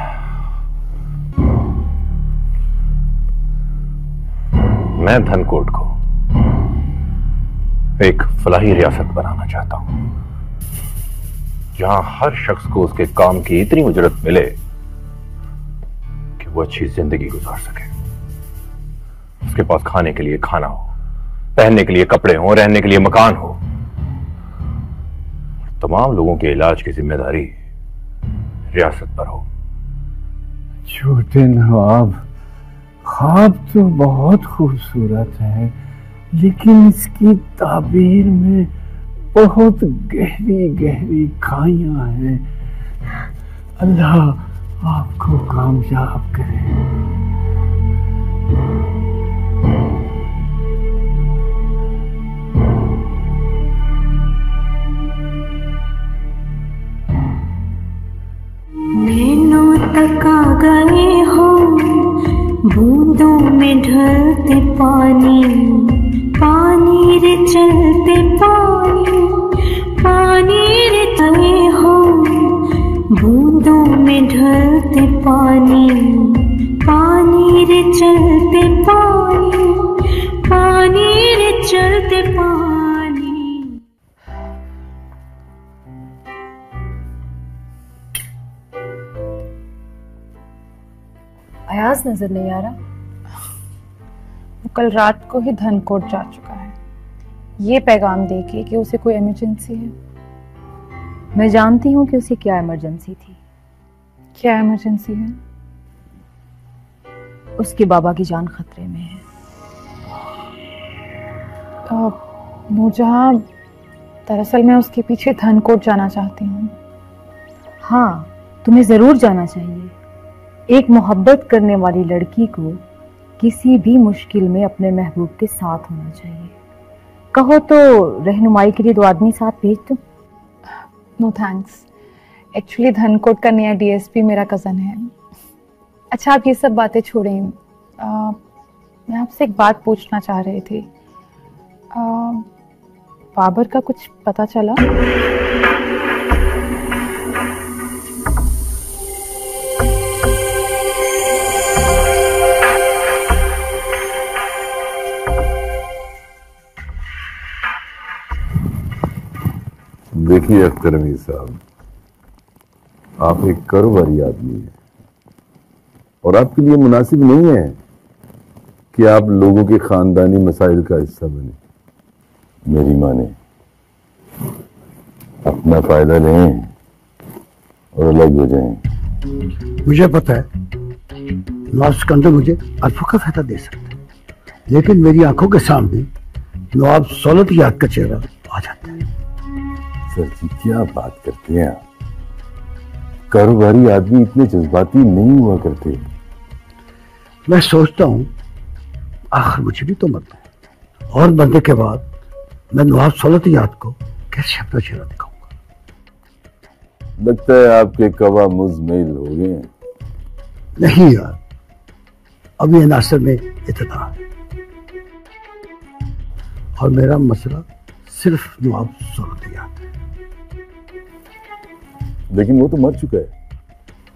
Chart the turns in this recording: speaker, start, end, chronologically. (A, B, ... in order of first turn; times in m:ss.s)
0:04.9-0:05.9 A
0:08.0-0:09.9 A
0:11.7-0:14.6 A
0:16.4-0:17.9 A
0:19.4-0:20.9 A
0:21.6-0:23.6 A
0:25.8-0:27.6 A
0:28.7-0:29.4 A
0:30.8-0:32.2 B
0:33.0-0:35.7 B
0:36.3-0:38.7 B
0:39.3-0:42.5 B
0:43.8-0:46.7 B
0:58.9-1:23.8 C
1:31.7-1:32.8 D
1:34.6-1:36.7 E
1:37.6-1:39.9 E
1:41.4-1:43.4 D
1:44.4-1:45.4 E
1:47.6-1:49.2 D
1:51.9-1:53.4 E
1:54.3-1:56.7 E
1:57.8-1:59.9 D
2:00.7-2:02.8 D
2:03.4-2:06.5 D
2:07.3-2:10.0 D
2:10.7-2:11.8 E
2:12.5-2:15.1 E
2:16.1-2:18.4 E
2:19.1-2:20.8 E
2:21.9-2:22.5 E
2:23.4-2:24.8 E
2:40.1-2:41.6 F
2:43.2-2:44.7 F
2:46.2-2:47.8 F
2:48.9-2:51.6 F
2:52.7-2:53.4 F
2:55.4-2:56.7 F
2:57.9-2:58.8 F
2:59.8-3:00.5 G
3:01.7-3:04.0 G
3:04.7-3:06.1 G
3:06.7-3:09.0 G
3:10.1-3:11.8 F
3:13.3-3:16.0 F
3:17.5-3:18.3 G
3:19.3-3:20.4 G
3:21.1-3:22.0 G
3:22.7-3:25.4 G
3:27.2-3:29.7 F
3:30.8-3:31.4 G
3:32.6-3:34.2 G
3:36.8-3:39.8 G
3:42.3-3:43.3 F